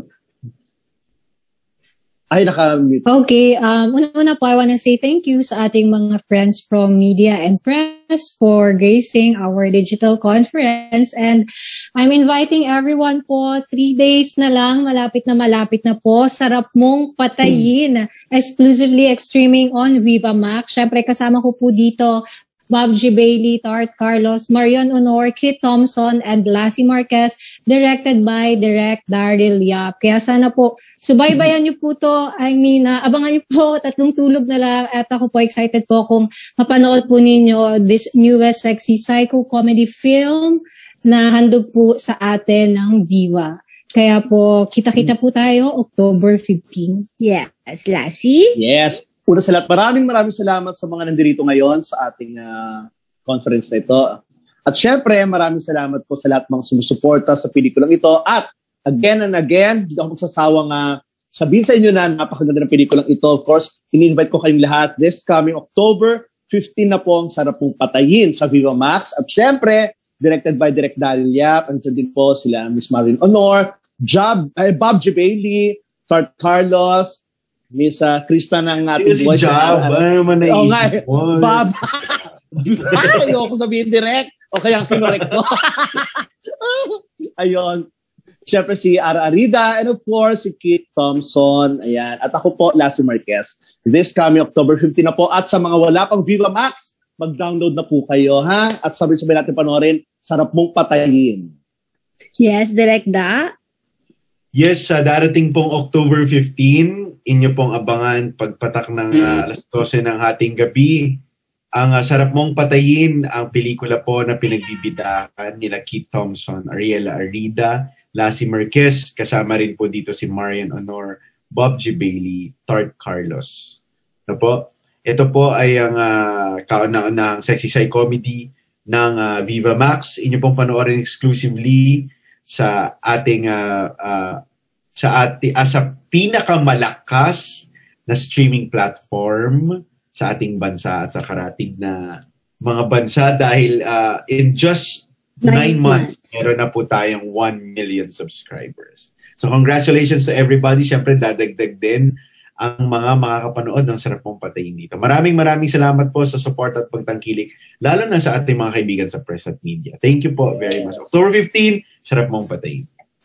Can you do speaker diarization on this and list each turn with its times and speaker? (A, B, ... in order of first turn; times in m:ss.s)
0:02.3-0:03.0 A
0:03.1-0:11.5 B
0:12.0-0:47.0 B
0:47.2-0:48.6 C
0:48.6-1:17.2 A
1:17.7-1:27.9 A
1:19.0-1:21.7 D
1:22.9-1:23.3 D
1:28.5-1:41.5 A
1:42.4-1:43.5 C
1:44.6-1:51.2 D
1:51.8-2:03.8 D
2:04.3-2:14.4 D
2:15.0-2:42.9 D
2:25.4-2:26.2 C